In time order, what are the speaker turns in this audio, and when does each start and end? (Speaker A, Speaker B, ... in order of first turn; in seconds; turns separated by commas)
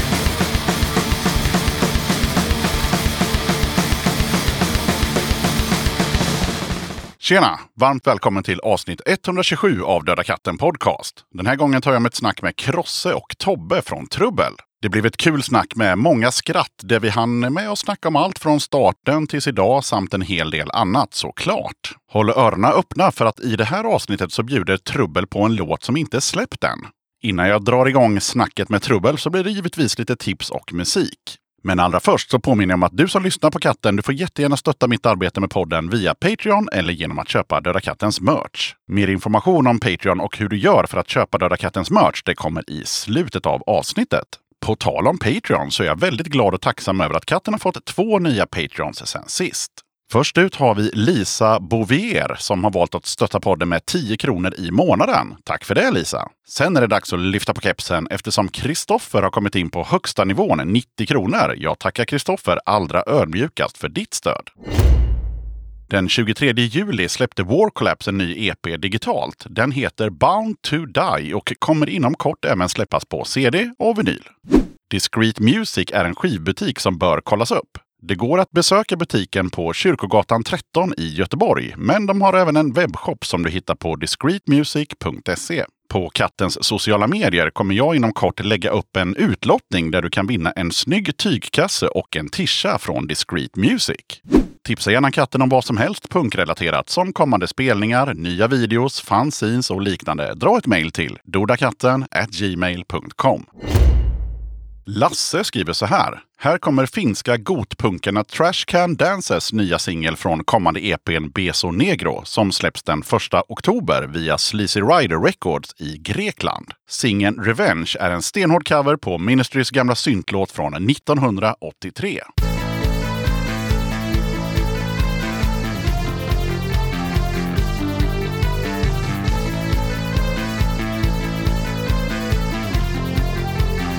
Speaker A: 7.2-64.5, Speaker A: 65.9-74.3, Speaker A: 74.9-103.5, Speaker A: 104.9-122.2